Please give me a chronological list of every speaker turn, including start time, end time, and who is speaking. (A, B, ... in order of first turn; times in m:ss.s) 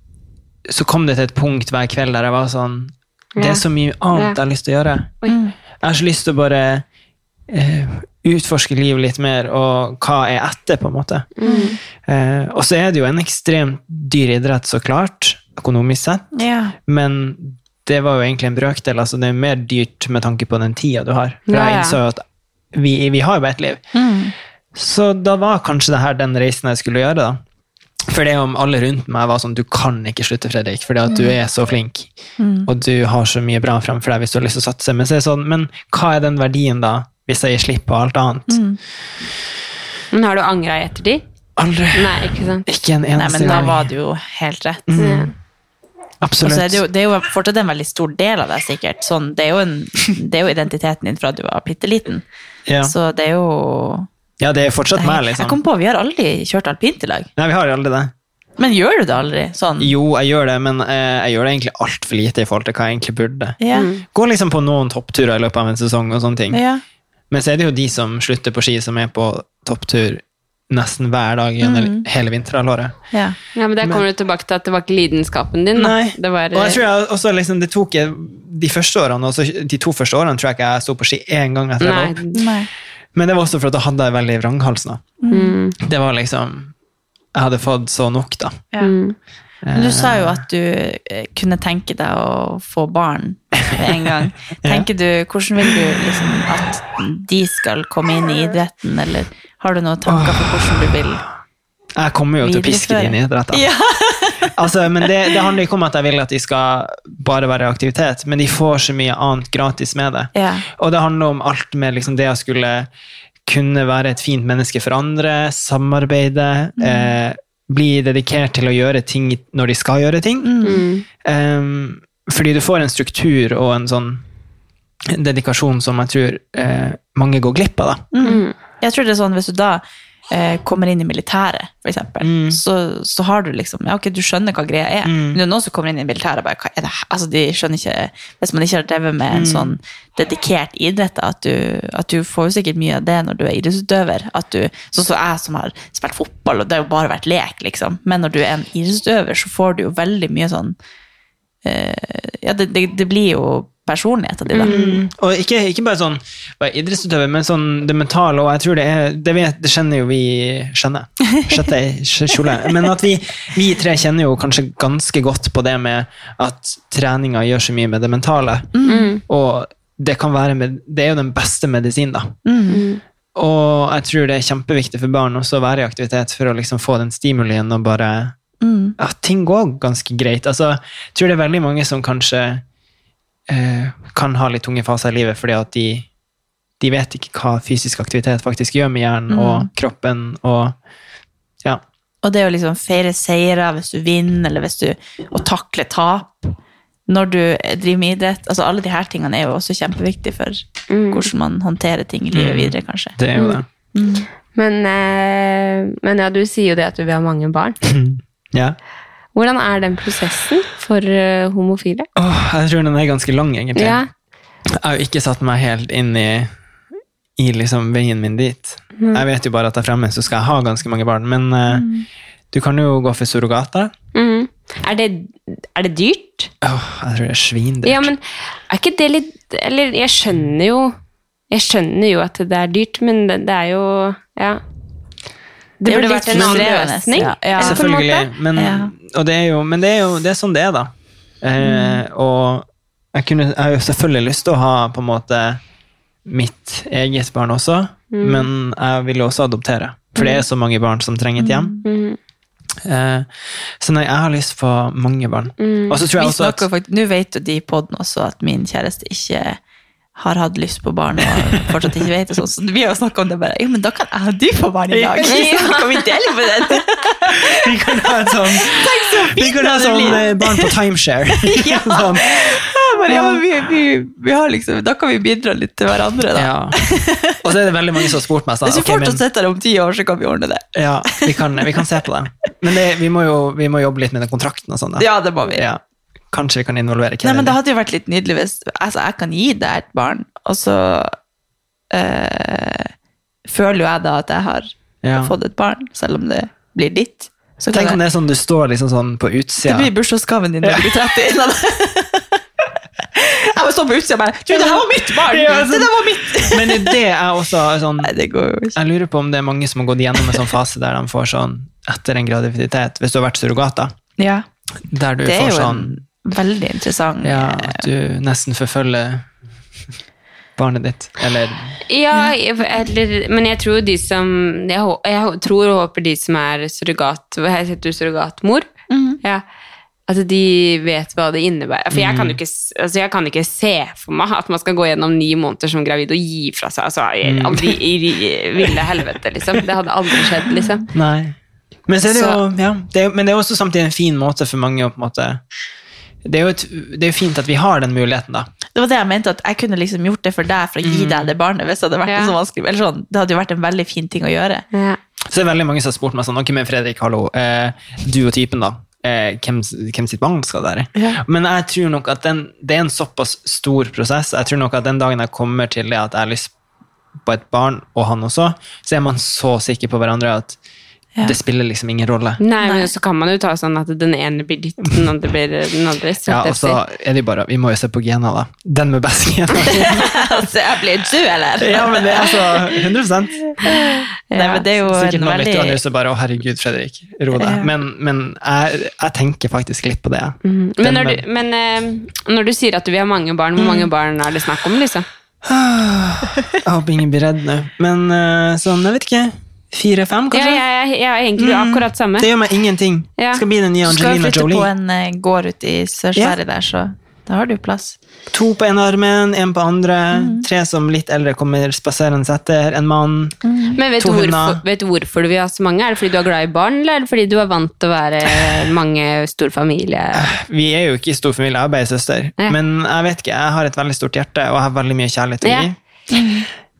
0:00.7-0:05.1 A
0:03.4-0:04.4 B
0:05.3-0:05.5 C
0:05.8-0:06.8 A
0:07.5-0:11.3 A
0:11.4-0:11.8 B
0:11.4-0:11.8 C
0:12.0-0:16.3 A
0:16.3-0:16.7 C
0:16.8-0:22.2 A
0:21.5-0:22.0 B
0:22.7-0:23.8 A
0:23.9-0:24.3 C
0:24.7-0:27.4 A
0:28.1-0:32.1 A
0:32.4-0:32.7 C
0:32.6-0:38.6 A
0:38.5-0:38.8 C
0:40.1-0:41.2 B
0:41.6-0:43.9 A
0:41.9-0:42.7 B
0:43.2-0:44.9 C
0:43.4-0:43.7 B
0:44.9-0:45.3 A
0:45.0-0:45.3 B
0:46.2-0:46.8 A
0:46.4-0:52.2 C
0:52.7-0:52.9 A
0:52.8-0:54.1 C
0:54.4-0:55.6 A
0:55.0-0:57.3 C
0:57.4-0:58.1 A
0:58.6-0:59.9 C
0:59.8-1:06.6 A
1:03.6-1:03.9 C
1:03.7-1:04.0 B
1:06.5-1:06.8 C
1:07.3-1:13.0 A
1:11.6-1:12.0 C
1:13.6-1:16.8 B
1:15.7-1:22.2 A
1:21.8-1:22.4 B
1:22.3-1:22.7 C
1:23.1-1:25.0 A
1:25.2-1:25.6 C
1:25.3-1:25.8 B
1:25.8-1:26.7 A
1:27.3-1:28.6 A
1:28.8-1:29.2 B
1:29.6-1:30.4 A
1:29.7-1:41.2 C
1:40.1-1:40.9 A
1:42.0-1:43.7 A
1:42.4-1:44.5 C
1:44.5-1:52.9 A
1:45.0-1:45.3 C
1:50.3-1:50.6 C
1:53.5-2:00.5 A
1:56.8-1:57.1 C
2:00.4-2:00.8 C
2:00.6-2:01.0 B
2:01.2-2:04.2 A
2:05.1-2:08.0 A
2:08.1-2:30.8 C
2:08.2-2:08.5 B
2:12.2-2:12.6 A
2:15.0-2:15.4 A
2:19.3-2:19.7 A
2:31.6-2:34.9 C
2:34.5-2:34.9 B
2:34.6-2:48.7 A
2:48.7-2:49.1 C
2:48.9-2:49.2 B
2:49.3-2:52.3 A
2:52.4-2:52.8 C
2:52.7-2:53.0 B
2:53.3-2:58.3 A
2:58.6-2:59.0 C
2:59.0-3:02.6 A
3:03.5-3:06.1 A
3:06.8-3:10.8 A
3:09.3-3:09.7 C
3:12.2-3:16.5 C
3:17.1-3:23.2 C
3:20.9-3:21.2 B
3:22.3-3:23.6 A
3:23.9-3:24.3 C
3:24.6-3:27.8 B
3:27.8-3:28.8 A
3:29.3-3:32.1 B
3:32.2-3:34.0 A
3:33.8-3:34.1 B
3:34.8-3:36.5 A
3:37.4-3:41.9 A
3:39.0-3:39.2 B
3:41.7-3:42.0 C
3:42.5-3:43.9 A
3:44.1-3:46.5 B
3:46.6-3:48.1 A
3:47.8-3:50.9 B
3:51.5-3:54.6 B
3:55.8-3:58.3 B
3:55.8-3:57.8 C
3:56.3-3:56.7 A
3:57.6-4:05.6 A
3:58.6-3:58.9 C
4:01.6-4:02.0 C
4:06.2-4:11.7 A
4:08.1-4:08.5 B
4:10.2-4:10.4 B
4:11.4-4:11.8 C
4:11.8-4:12.2 B
4:12.8-4:13.3 A
4:13.8-4:16.6 A
4:15.6-4:16.0 B
4:16.2-4:19.6 C
4:20.2-4:27.4 C
4:24.9-4:25.7 A
4:25.2-4:26.0 B
4:27.3-4:33.4 A
4:28.5-4:30.7 C
4:31.4-4:37.4 C
4:36.3-4:36.8 A
4:37.4-4:39.2 A
4:38.6-4:41.8 C
4:40.7-4:45.8 A
4:45.0-4:45.6 C
4:46.3-4:47.6 A
4:47.2-4:51.1 C
4:51.9-4:52.9 C
4:53.4-4:54.7 C
4:55.0-4:55.3 A
4:55.2-4:58.0 C
4:57.7-4:59.9 A
4:59.6-5:02.3 C
5:00.6-5:00.9 A
5:03.1-5:07.0 C
5:04.5-5:08.1 A
5:08.0-5:08.8 C
5:08.7-5:13.9 A
5:14.2-5:14.4 C
5:14.9-5:16.0 A
5:15.2-5:17.8 C
5:17.2-5:19.2 A
5:20.6-5:21.8 A
5:21.9-5:28.7 B
5:28.9-5:29.2 C
5:30.1-5:40.8 B
5:31.9-5:32.4 A
5:37.2-5:37.8 A
5:40.9-5:41.4 A
5:41.9-5:45.4 A
5:42.0-5:42.4 B
5:46.2-5:48.5 A
5:48.7-5:54.6 C
5:50.8-5:51.3 A
5:52.1-5:52.3 B
5:54.7-5:55.0 B
5:55.3-6:06.5 A
6:00.9-6:01.2 C
6:07.2-6:10.6 A
6:11.2-6:12.4 A
6:12.4-6:16.8 B
6:12.6-6:12.9 C
6:16.2-6:20.3 A
6:19.9-6:22.7 C
6:21.6-6:23.5 A
6:23.5-6:25.8 C
6:24.3-6:24.6 B
6:24.8-6:31.2 A
6:27.3-6:27.7 C
6:30.4-6:35.0 B
6:33.6-6:33.9 A
6:35.4-6:40.6 A
6:40.3-6:42.3 B
6:41.4-6:44.7 A
6:43.2-6:43.4 B
6:43.8-6:48.0 C
6:48.3-6:53.4 A
6:50.1-6:50.4 C
6:53.4-6:53.8 C
6:53.8-7:00.3 B
6:54.0-6:54.6 A
7:00.1-7:05.7 A
7:06.1-7:06.5 C